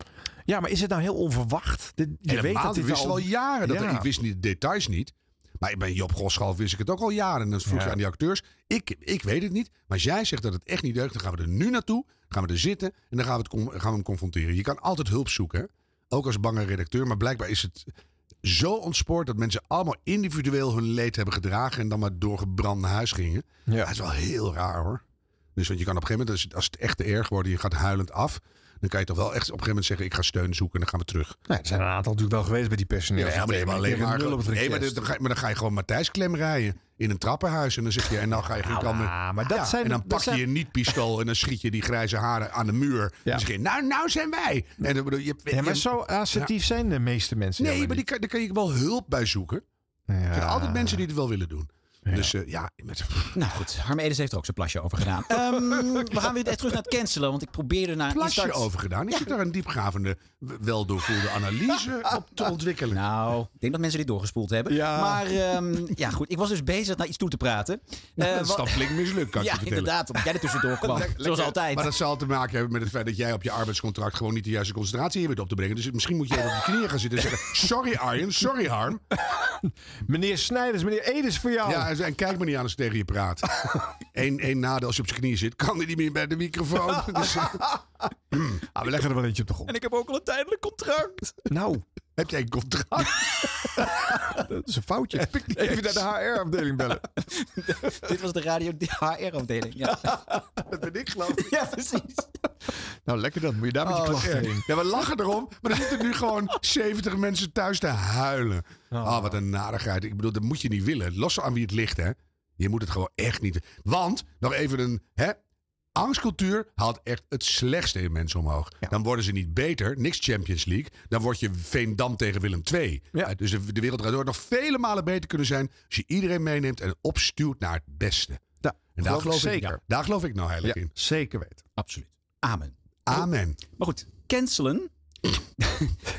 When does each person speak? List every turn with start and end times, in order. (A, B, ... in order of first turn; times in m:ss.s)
0:00.5-0:04.1 A
0:02.3-0:17.9 B
0:07.7-0:08.0 A
0:18.4-0:25.0 B
0:25.6-0:31.4 B
0:31.5-0:35.0 A
0:33.2-0:46.5 B
0:38.5-0:40.5 A
0:45.5-0:48.0 A
0:47.6-0:49.6 B
0:50.1-0:51.0 A
0:50.3-0:53.4 B
0:52.1-0:52.3 A
0:53.3-0:59.3 C
0:58.1-1:03.0 B
1:02.9-1:11.9 C
1:04.7-1:05.3 A
1:08.2-1:09.9 B
1:10.9-1:19.0 B
1:20.1-1:21.9 A
1:21.6-1:23.5 B
1:24.1-1:27.6 B
1:27.2-1:27.7 A
1:28.7-1:29.7 A
1:29.7-1:31.4 C
1:31.5-1:31.8 A
1:32.2-1:33.2 B
1:33.8-1:37.1 A
1:35.6-1:35.9 B
1:37.4-1:40.2 C
1:40.8-1:41.3 B
1:41.3-1:42.3 C
1:43.1-1:44.7 A
1:43.9-1:55.4 B
1:48.9-1:49.4 A
1:56.0-2:08.4 B
2:08.6-2:09.8 A
2:09.0-2:10.9 B
2:10.6-2:11.6 A
2:11.8-2:14.9 C
2:13.1-2:13.6 B